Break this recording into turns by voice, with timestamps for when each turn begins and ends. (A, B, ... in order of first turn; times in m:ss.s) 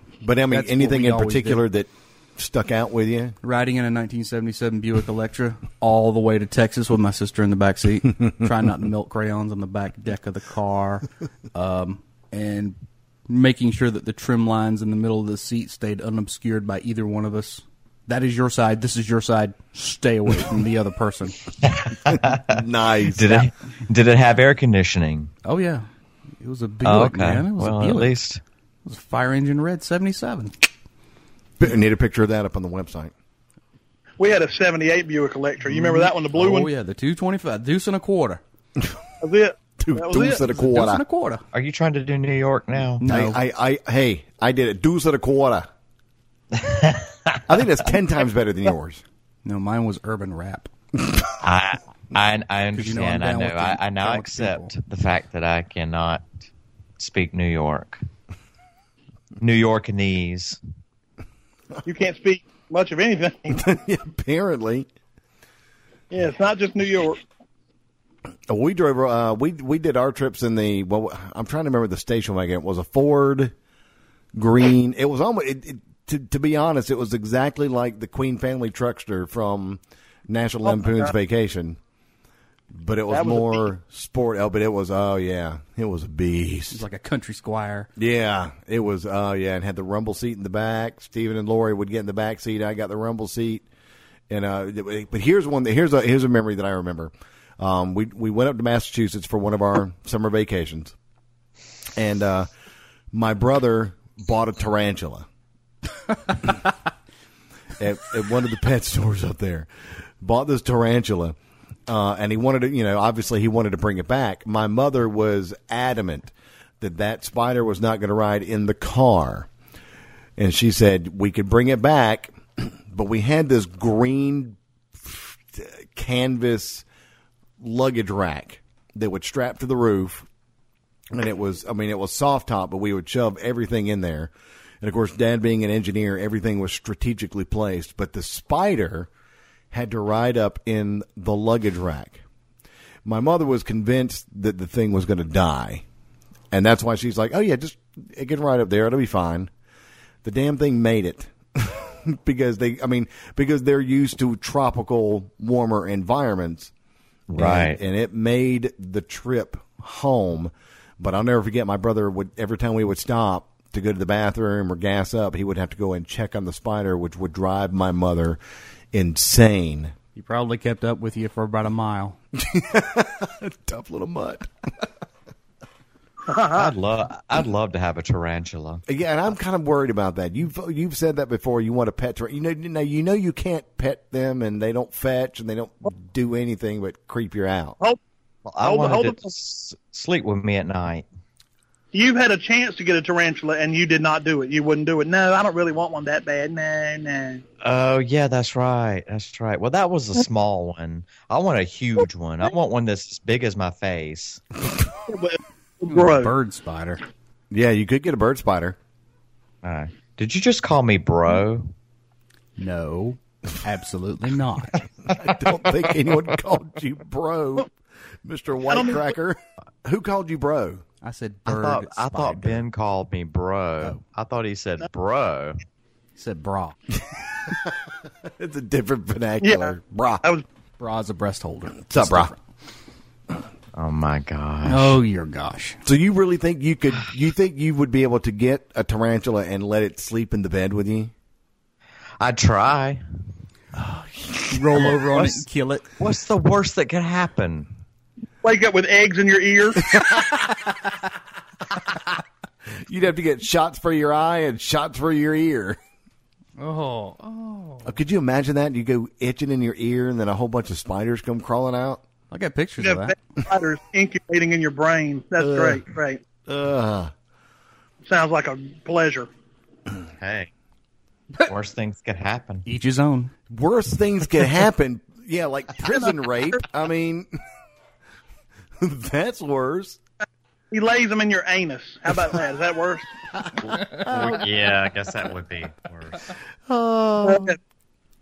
0:00.2-0:03.4 A
0:00.5-0:01.6 B
0:03.4-0:12.8 B
0:13.3-0:21.4 B
0:21.6-0:25.3 C
0:22.1-0:23.5 A
0:25.4-0:25.9 B
0:26.4-0:28.1 B
0:26.8-0:28.4 C
0:28.8-0:30.6 B
0:31.6-0:33.1 A
0:34.2-0:36.7 D
0:35.7-0:38.4 B
0:39.2-0:40.4 D
0:39.8-0:41.0 A
0:40.4-0:41.4 B
0:41.5-0:43.0 C
0:43.0-0:43.4 B
0:43.1-0:45.7 A
0:46.5-0:47.4 C
0:47.5-0:49.0 A
0:49.4-0:50.7 B
0:51.4-0:56.2 C
0:52.7-0:54.7 B
0:57.0-0:58.0 C
0:59.4-1:00.6 C
1:01.8-1:03.7 D
1:03.5-1:04.9 A
1:06.1-1:07.2 D
1:08.5-1:13.5 A
1:14.3-1:21.8 A
1:22.7-1:26.8 A
1:23.1-1:23.7 D
1:26.7-1:27.9 B
1:28.0-1:33.6 A
1:34.3-1:40.9 A
1:42.0-1:42.5 A
1:43.1-1:45.2 A
1:47.8-1:49.7 A
1:50.2-1:51.4 A
1:51.9-1:59.5 A
2:00.4-2:06.8 A
2:07.6-2:10.3 A
2:11.1-2:14.3 A
2:14.8-2:19.1 A
2:19.7-2:22.2 A
2:23.0-2:25.8 A
2:26.5-2:29.5 A
2:30.2-2:36.7 A
2:37.3-2:37.8 C
2:37.4-2:48.4 A
2:48.9-2:49.9 A
2:50.1-2:52.2 B
2:52.3-2:54.5 A
2:56.3-2:56.7 D
2:56.5-2:58.8 C
2:58.9-3:07.8 A
3:08.4-3:11.0 C
3:08.6-3:09.3 D
3:11.9-3:17.4 D
3:17.6-3:24.4 C
3:25.1-3:26.3 D
3:25.9-3:27.0 B
3:27.5-3:28.8 A
3:29.6-3:31.7 C
3:32.6-3:34.8 B
3:35.1-3:37.7 A
3:38.2-3:40.8 A
3:38.7-3:39.0 D
3:41.0-3:42.6 B
3:41.5-3:45.6 C
3:46.2-3:46.8 B
3:47.5-3:50.2 A
3:49.4-3:50.4 D
3:50.8-3:52.4 B
3:51.9-3:52.3 A
3:53.8-3:55.0 C
3:54.6-3:55.8 B
3:55.8-4:01.1 A
4:02.2-4:03.0 C
4:03.8-4:04.4 A
4:04.5-4:05.8 B
4:05.1-4:05.4 C
4:06.0-4:07.7 C
4:08.4-4:09.9 D
4:09.9-4:10.6 A
4:12.8-4:15.8 A
4:16.6-4:17.9 B
4:17.8-4:22.0 A
4:22.3-4:23.1 B
4:22.8-4:26.2 D
4:25.4-4:25.8 A
4:26.4-4:27.1 A
4:28.0-4:29.3 D
4:30.2-4:30.5 C
4:31.4-4:32.6 C
4:32.6-4:33.3 B
4:33.5-4:37.3 A
4:38.8-4:40.0 A
4:40.7-4:43.1 D
4:43.4-4:44.4 A
4:43.9-4:46.3 C
4:46.7-4:47.6 A
4:47.2-4:47.6 D